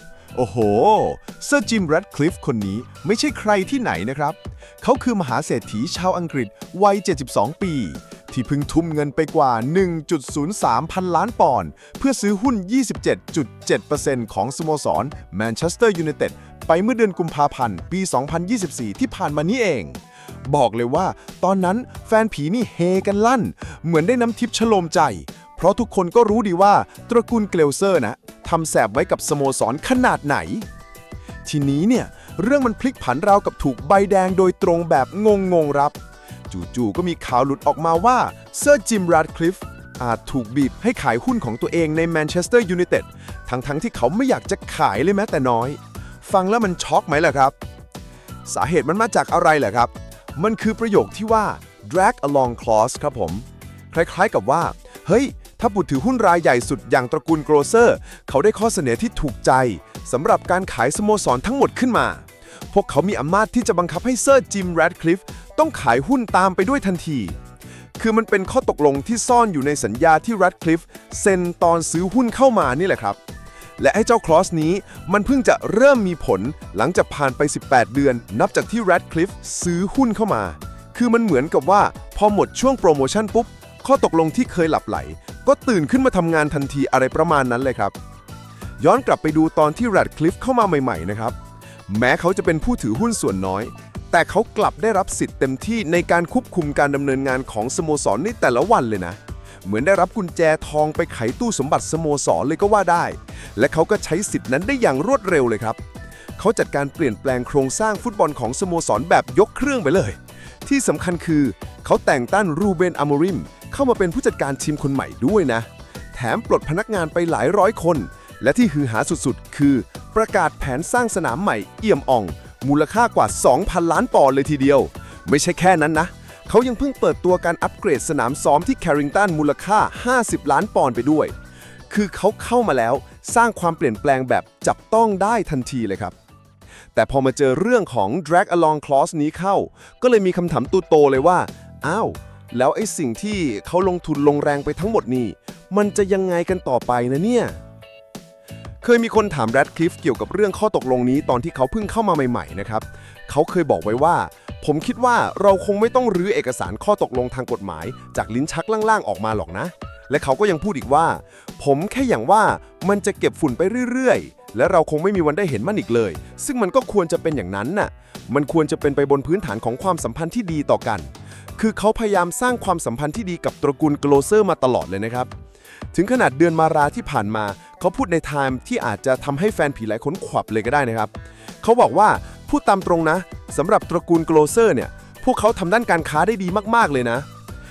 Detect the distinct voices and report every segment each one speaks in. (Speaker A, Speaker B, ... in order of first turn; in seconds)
Speaker A: 0.3-30.7, 31.4-36.0, 36.5-47.5, 48.5-67.4, 68.0-73.2, 73.8-88.0, 88.8-91.3, 91.9-105.8, 106.4-131.3, 131.9-136.1, 136.9-147.6, 148.8-175.3, 175.9-187.3